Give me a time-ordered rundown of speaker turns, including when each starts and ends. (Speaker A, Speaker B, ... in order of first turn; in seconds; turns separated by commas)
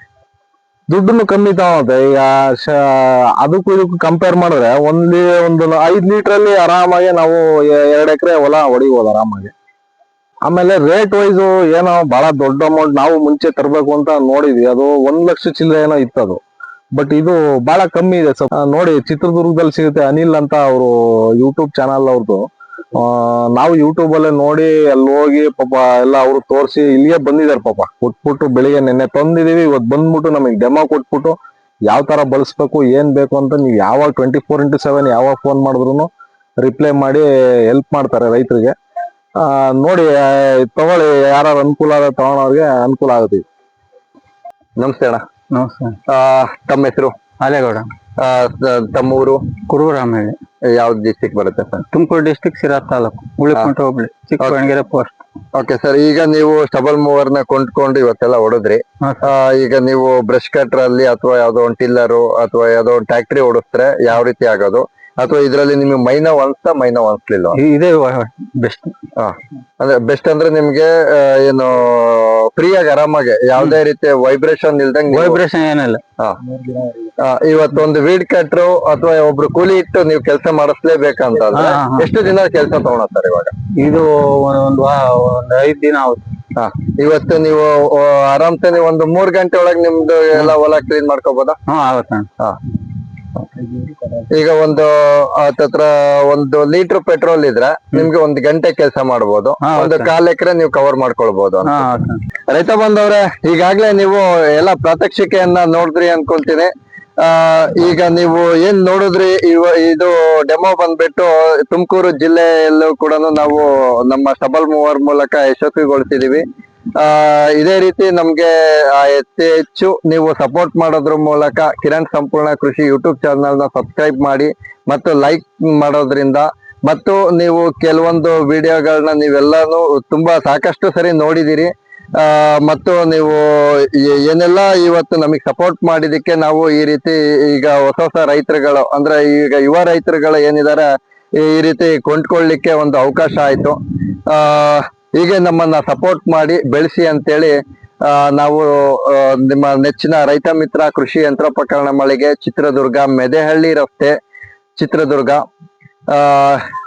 Speaker A: 0.9-9.5, Speaker A: 10.4-16.4, Speaker A: 16.9-31.4, Speaker A: 31.9-36.1, Speaker A: 36.6-38.8, Speaker A: 39.4-43.4, Speaker B: 44.8-45.2, Speaker C: 45.5-46.0, Speaker B: 46.1-47.1, Speaker C: 47.4-47.9, Speaker B: 48.2-49.5, Speaker C: 49.6-50.4, Speaker B: 50.7-51.8, Speaker C: 51.9-55.2, Speaker B: 55.5-67.6, Speaker C: 67.5-69.1, Speaker B: 69.2-75.4, Speaker C: 75.1-76.0, Speaker C: 76.6-77.1, Speaker B: 77.2-83.5, Speaker C: 81.5-82.1, Speaker C: 83.8-86.3, Speaker B: 86.6-91.6, Speaker C: 91.7-92.3, Speaker C: 93.6-94.0, Speaker B: 94.3-101.9, Speaker C: 99.6-100.1, Speaker C: 101.7-102.2, Speaker B: 102.5-106.7, Speaker B: 107.2-116.5, Speaker B: 117.0-143.8, Speaker B: 144.3-154.2, Speaker B: 154.8-155.4, Speaker B: 156.1-156.6